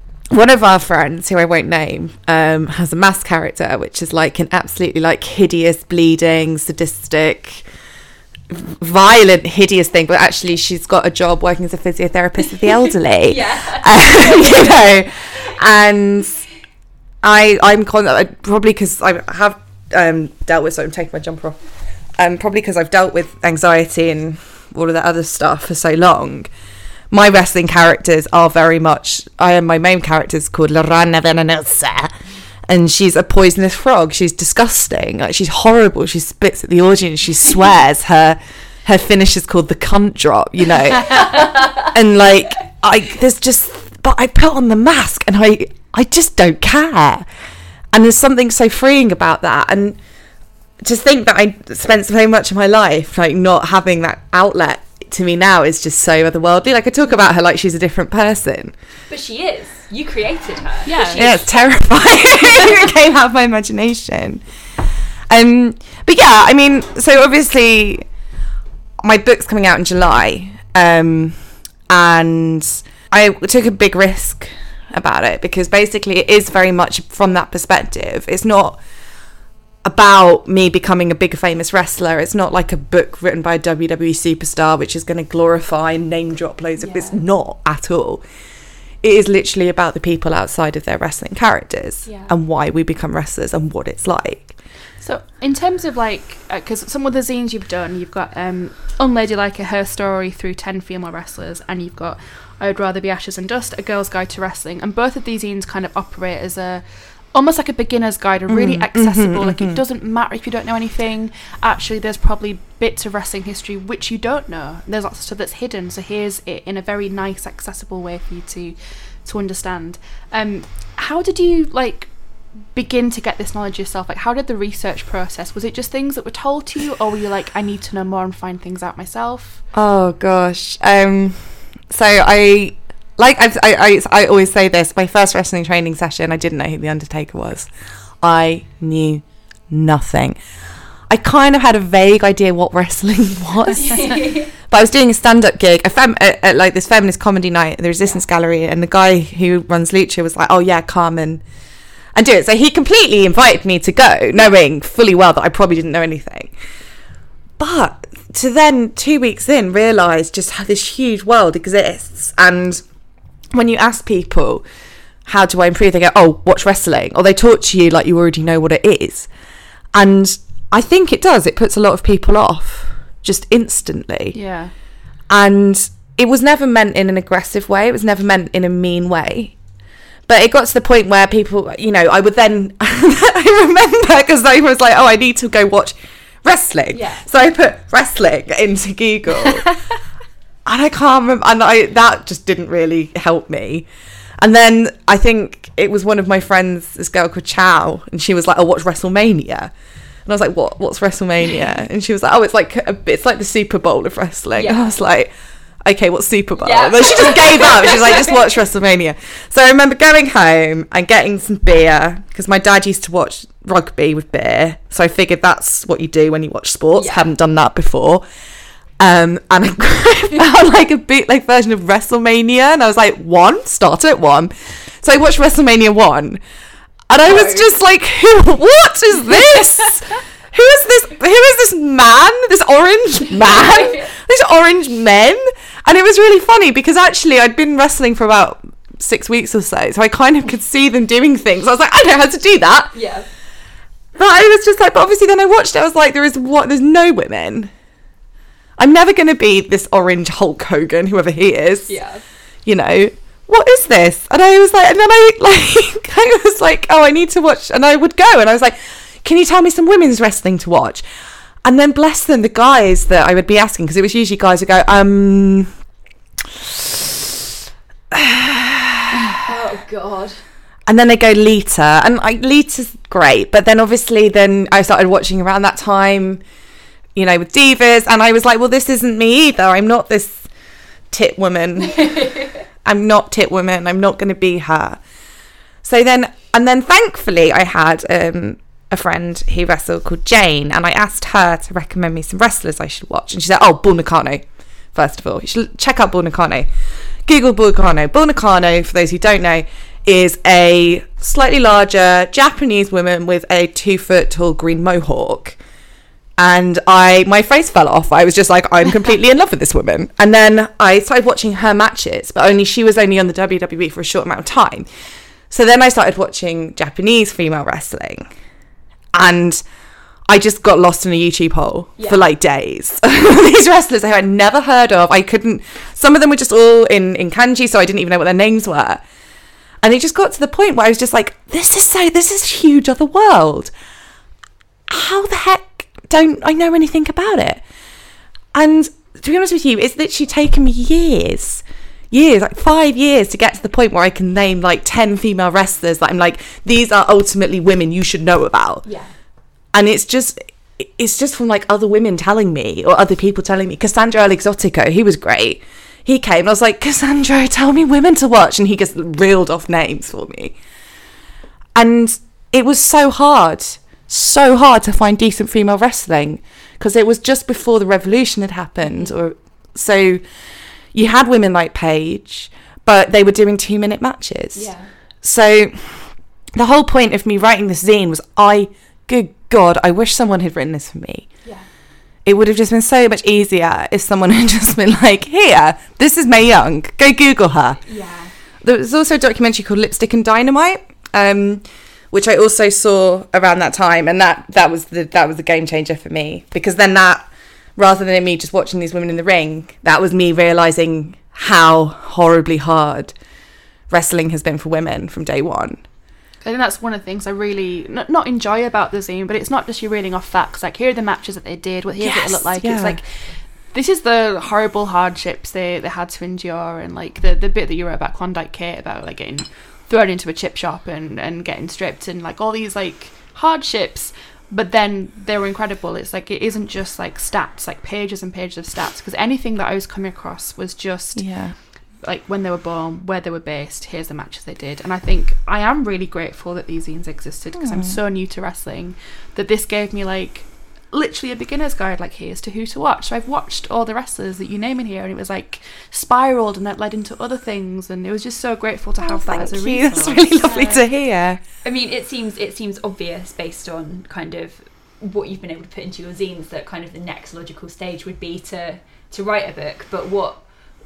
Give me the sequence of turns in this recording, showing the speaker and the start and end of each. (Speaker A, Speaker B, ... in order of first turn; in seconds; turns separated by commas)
Speaker A: 0.3-7.6, Speaker A: 8.5-16.4, Speaker B: 13.2-15.5, Speaker A: 17.2-21.6, Speaker A: 22.2-26.5, Speaker A: 27.1-32.1, Speaker A: 32.7-47.3, Speaker A: 47.9-50.0, Speaker A: 50.8-58.7, Speaker B: 59.1-61.5, Speaker C: 60.9-61.3, Speaker A: 61.1-64.4, Speaker A: 65.3-68.1, Speaker A: 69.0-71.3, Speaker A: 71.9-78.8, Speaker A: 79.8-88.2, Speaker B: 86.8-87.2, Speaker A: 89.0-94.5, Speaker C: 95.0-122.1, Speaker A: 108.5-109.8, Speaker C: 122.7-129.6, Speaker A: 129.7-137.7, Speaker A: 138.2-140.4, Speaker A: 141.1-151.4, Speaker B: 143.8-144.5, Speaker A: 152.2-156.5, Speaker A: 157.6-162.8, Speaker A: 163.5-164.6, Speaker A: 165.3-169.3, Speaker A: 169.9-174.4, Speaker C: 174.3-174.7, Speaker A: 175.3-179.5, Speaker A: 180.3-189.8, Speaker B: 186.9-187.3, Speaker A: 190.7-193.9, Speaker A: 194.4-199.7, Speaker A: 200.3-205.3, Speaker B: 204.6-205.0, Speaker A: 205.8-218.2, Speaker B: 206.6-208.4, Speaker B: 217.0-217.3, Speaker A: 219.0-226.4, Speaker A: 227.1-242.9, Speaker B: 227.3-227.7, Speaker B: 233.4-234.1, Speaker B: 242.9-243.3, Speaker A: 244.2-247.7, Speaker A: 248.8-251.9, Speaker B: 251.9-252.2, Speaker A: 252.7-261.0, Speaker A: 261.6-265.7, Speaker A: 266.6-267.1, Speaker A: 268.1-269.4, Speaker B: 269.4-270.4, Speaker A: 270.9-276.4, Speaker A: 277.1-280.5, Speaker A: 281.1-282.3, Speaker A: 282.9-285.0, Speaker A: 285.8-296.7, Speaker A: 297.3-305.6, Speaker A: 306.4-314.9, Speaker A: 315.5-318.3, Speaker A: 319.1-319.6, Speaker A: 320.3-329.0, Speaker B: 322.0-322.2, Speaker A: 329.8-333.7, Speaker A: 334.9-337.6, Speaker A: 338.5-348.9, Speaker B: 348.9-349.1, Speaker A: 349.7-360.6, Speaker A: 361.8-370.2, Speaker B: 368.9-369.1, Speaker A: 370.9-374.7, Speaker B: 374.5-374.9, Speaker A: 375.2-376.0, Speaker A: 376.6-381.3, Speaker A: 382.2-387.8, Speaker B: 387.9-388.3, Speaker A: 388.6-397.3, Speaker A: 397.8-403.1, Speaker A: 403.9-405.8, Speaker C: 406.4-431.3, Speaker A: 412.0-413.0, Speaker A: 431.2-431.6, Speaker C: 432.0-450.7, Speaker A: 437.6-438.0, Speaker A: 449.1-451.4, Speaker B: 450.5-450.8, Speaker B: 451.6-460.4